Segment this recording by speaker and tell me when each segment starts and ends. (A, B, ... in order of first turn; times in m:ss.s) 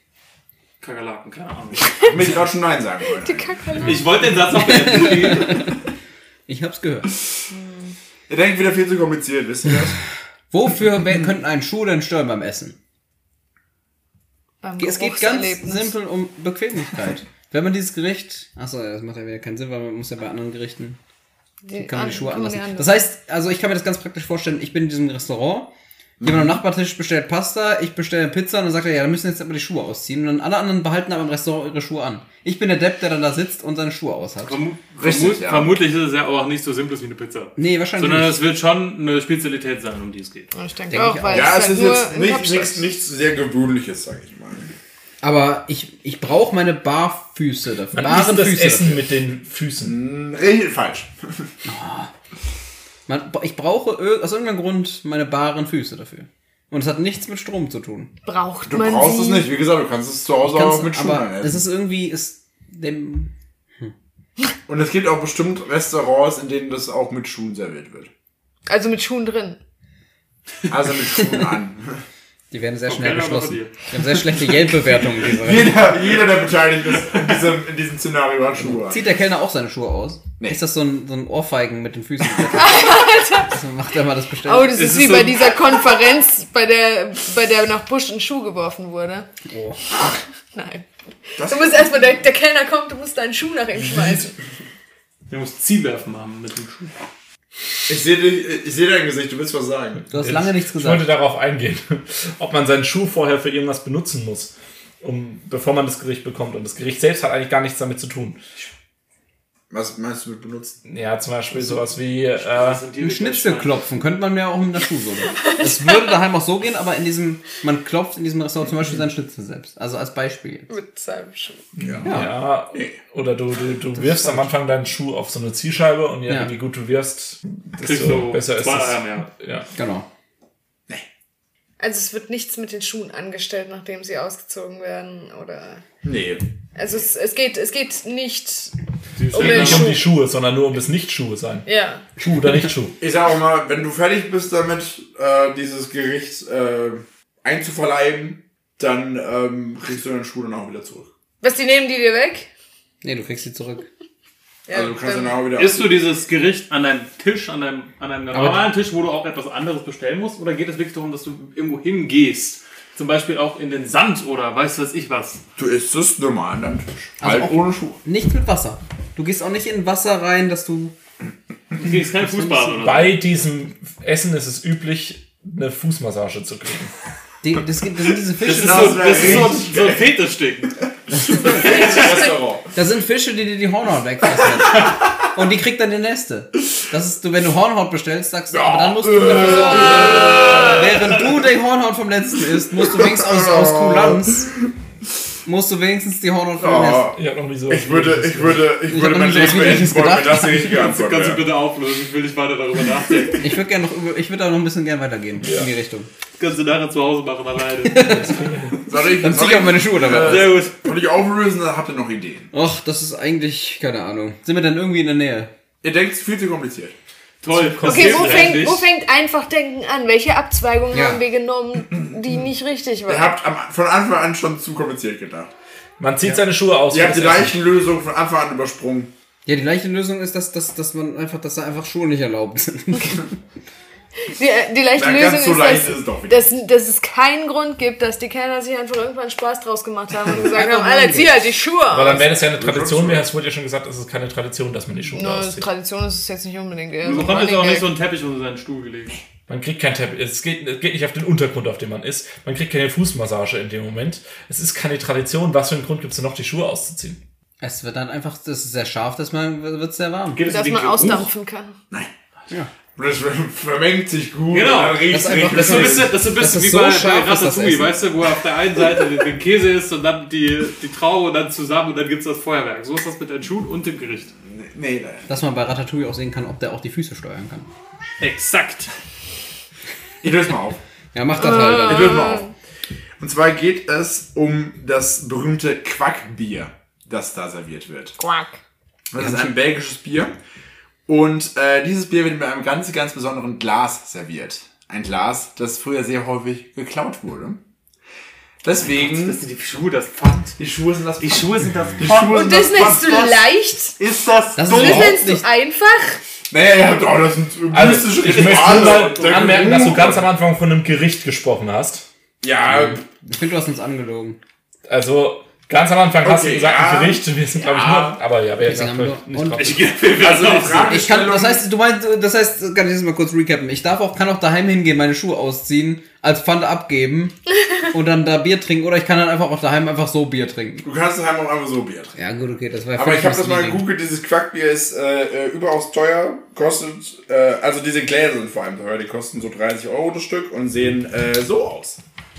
0:00.8-0:02.4 A
0:02.0-0:03.8 B
0:03.1-0:04.1 C
0:03.8-0:05.7 A
0:04.6-0:05.7 D
0:06.5-0:07.1 D
0:07.5-0:07.9 C
0:08.3-0:10.0 B
0:10.5-0:12.8 D
0:14.6-0:16.0 C
0:14.8-0:21.0 D
0:21.6-0:23.0 C
0:21.7-0:34.6 D
0:26.2-0:26.6 B
0:34.4-0:40.5 A
0:35.0-0:35.8 B
0:37.6-0:38.4 D
0:40.5-0:42.8 C
0:40.9-0:41.6 D
0:41.3-0:44.7 B
0:45.2-0:49.0 D
0:47.9-0:49.9 E
0:49.8-0:51.5 B
0:51.6-0:52.1 D
0:53.1-0:58.1 D
0:58.2-0:59.5 C
0:58.7-1:01.6 B
1:00.4-1:03.9 D
1:04.7-1:08.1 B
1:08.7-1:09.6 C
1:10.7-1:12.0 B
1:12.5-1:15.9 D
1:12.9-1:13.8 A
1:15.2-1:19.1 B
1:18.6-1:24.9 D
1:22.4-1:23.6 C
1:24.4-1:29.3 C
1:24.7-1:25.7 A
1:29.4-1:29.8 D
1:30.5-1:34.3 C
1:31.4-1:32.0 B
1:35.3-1:36.9 A
1:37.9-1:40.0 B
1:40.1-1:41.1 D
1:40.2-1:48.4 E
1:49.7-1:50.8 B
1:50.8-1:52.8 E
1:52.4-1:53.8 A
1:53.0-2:00.7 D
2:00.7-2:01.6 C
2:01.8-2:02.2 B
2:01.8-2:09.7 E
2:02.0-2:02.3 D
2:03.9-2:04.5 D
2:06.3-2:06.5 D
2:07.8-2:09.3 A
2:09.8-2:10.1 D
2:11.8-2:15.8 C
2:16.0-2:16.4 B
2:16.7-2:18.7 C
2:19.2-2:19.9 A
2:19.3-2:20.1 C
2:19.3-2:21.6 E
2:21.6-2:22.0 C
2:22.2-2:23.0 E
2:23.0-2:31.1 B
2:31.4-2:32.5 C
2:33.0-2:33.9 D
2:34.7-2:35.4 C
2:34.7-2:36.0 B
2:35.5-2:45.4 A
2:38.3-2:38.6 D
2:45.6-2:48.0 B
2:47.2-2:50.9 D
2:51.7-2:53.2 A
2:52.2-2:52.9 D
2:52.8-2:56.9 E
2:57.4-2:59.5 D
2:58.4-3:00.8 A
2:58.5-3:00.1 B
3:01.1-3:01.6 D
3:01.3-3:02.7 B
3:01.5-3:02.2 A
3:01.5-3:02.2 C
3:02.7-3:14.5 D
3:08.5-3:11.0 B
3:12.8-3:14.7 B
3:15.4-3:17.1 D
3:16.6-3:21.5 B
3:17.1-3:18.7 E
3:18.8-3:20.7 D
3:20.6-3:23.5 A
3:23.4-3:26.1 D
3:25.4-3:25.7 E
3:26.4-3:28.2 A
3:27.8-3:30.6 D
3:28.0-3:28.8 E
3:28.8-3:32.5 B
3:30.1-3:30.8 A
3:32.5-3:35.5 D
3:35.8-3:36.9 B
3:37.4-3:38.9 A
3:37.5-3:38.6 E
3:37.8-3:43.3 C
3:40.9-3:41.2 D
3:43.0-3:45.5 B
3:46.0-3:47.5 E
3:46.9-3:49.1 B
3:49.4-3:53.4 D
3:54.3-4:02.3 C
3:54.9-3:56.5 B
4:00.3-4:01.4 D
4:01.9-4:05.7 E
4:02.4-4:03.3 B
4:05.1-4:07.9 C
4:07.0-4:09.2 A
4:09.5-4:17.2 E
4:17.6-4:20.4 D
4:20.3-4:21.3 A
4:20.5-4:21.7 C
4:23.0-4:26.2 B
4:24.5-4:34.3 A
4:25.1-4:28.0 D
4:34.5-4:35.3 B
4:35.3-4:37.7 D
4:38.2-4:38.9 A
4:40.2-4:40.8 B
4:41.1-4:42.2 D
4:41.4-4:42.5 C
4:41.6-4:42.5 B
4:43.2-4:48.2 B
4:48.2-4:48.6 C
4:49.1-4:50.4 B
4:49.2-4:49.5 D
4:51.1-4:57.6 B
4:58.6-4:59.4 B
4:58.7-5:00.6 A
5:00.6-5:03.3 B
5:01.2-5:03.4 A
5:02.2-5:03.9 C
5:04.0-5:05.1 A
5:04.6-5:05.5 D
5:04.6-5:06.2 C
5:06.5-5:10.3 B
5:07.7-5:12.0 E
5:08.3-5:09.9 A
5:12.4-5:13.0 B
5:12.7-5:14.4 D
5:14.9-5:19.9 E
5:16.2-5:18.2 B
5:18.6-5:19.8 D
5:19.6-5:21.0 A
5:20.2-5:21.6 B
5:20.7-5:27.4 D
5:27.9-5:30.9 D
5:30.8-5:32.2 B
5:32.2-5:33.9 D
5:32.9-5:42.0 B